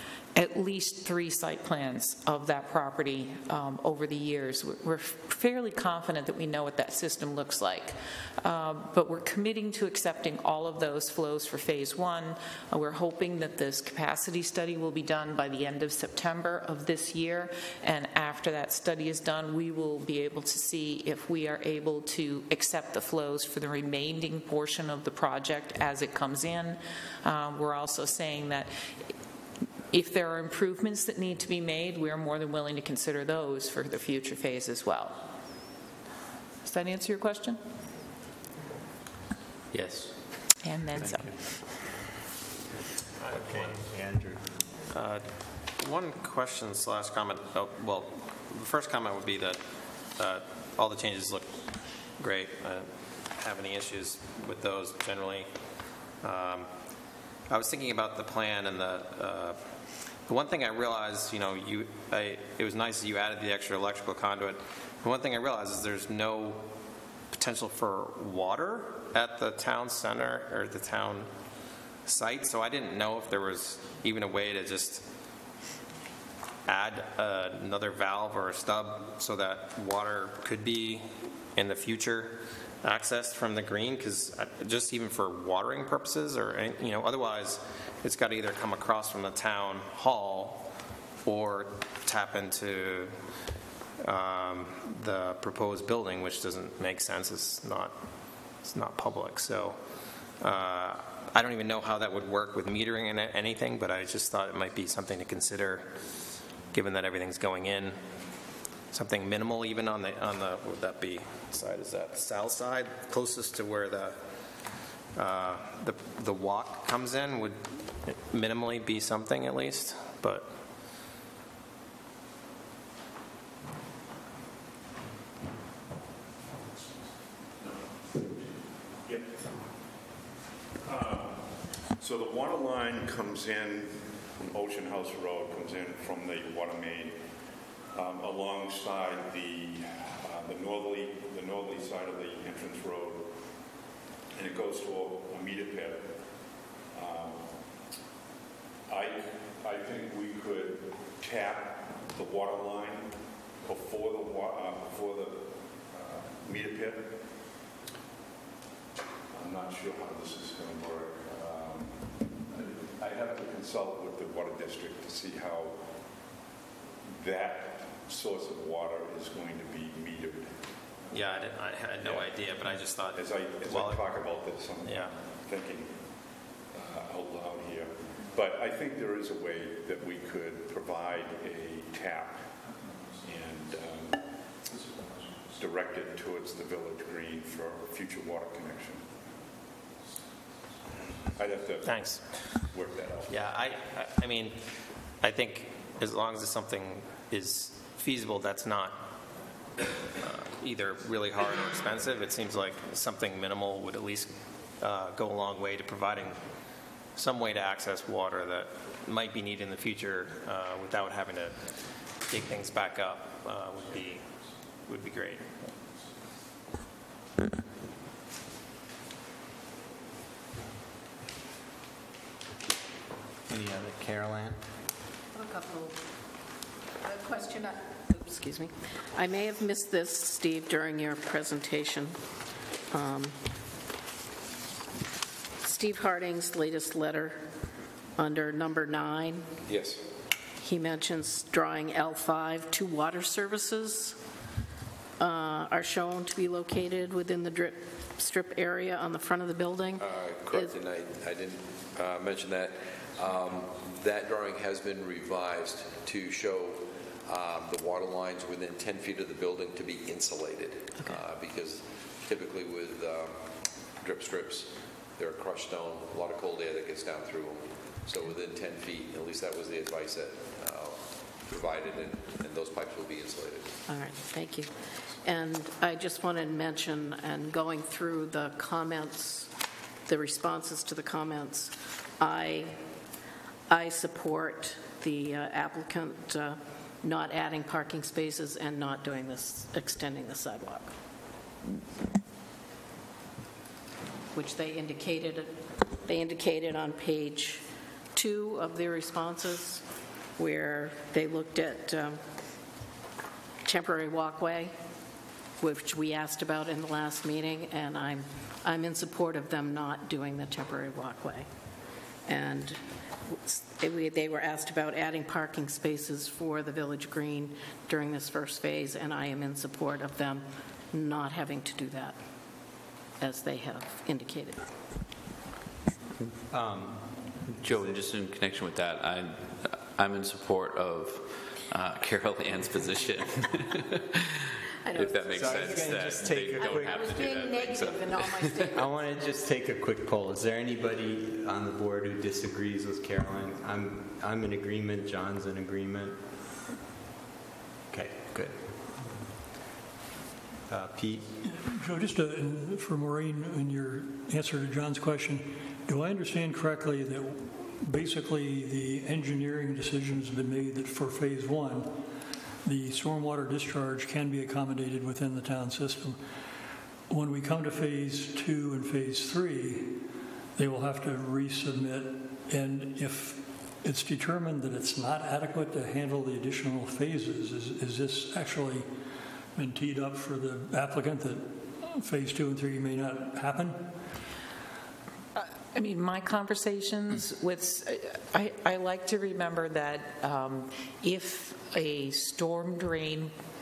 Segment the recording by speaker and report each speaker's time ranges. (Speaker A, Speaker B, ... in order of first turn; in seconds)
Speaker A: 0.3-28.7, 29.9-35.2, 36.6-37.6, 40.6-41.3, 385.4-393.3
Speaker B: 39.7-40.2, 327.6-334.3, 334.9-338.7
Speaker C: 41.0-41.6, 43.2-44.5, 223.5-224.6, 326.5-327.9, 335.3-337.1, 338.7-346.2, 347.9-348.6, 350.7-351.3
Speaker D: 43.2-43.8, 44.9-66.7, 67.3-71.3, 72.0-75.1, 76.7-90.7, 91.2-93.3, 94.0-106.0, 106.7-108.0, 108.9-114.3, 115.1-120.5, 171.1-174.0, 174.8-175.1, 191.8-192.7, 193.3-199.1, 200.2-206.6, 207.1-214.3, 214.8-215.5
Speaker E: 127.6-128.4, 129.0-129.5, 130.8-137.2, 137.9-143.3, 144.3-146.1, 146.9-147.5, 148.9-157.2, 159.3-165.8, 167.1-175.9, 176.7-182.5, 183.2-184.2, 185.5-189.1, 191.3-193.7
Speaker F: 225.3-226.0, 227.0-232.2, 232.9-233.3, 235.6-237.4, 238.2-239.5, 240.6-244.2, 245.2-250.7, 273.9-279.5, 280.1-282.8, 283.7-290.9, 294.3-299.8, 300.4-302.2, 303.6-304.7, 305.6-311.5, 312.2-322.2, 323.2-324.6, 334.8-338.9
Speaker G: 239.7-240.0, 250.0-273.8
Speaker H: 351.5-362.0, 362.6-366.2, 367.1-370.0, 370.6-378.9, 379.5-383.9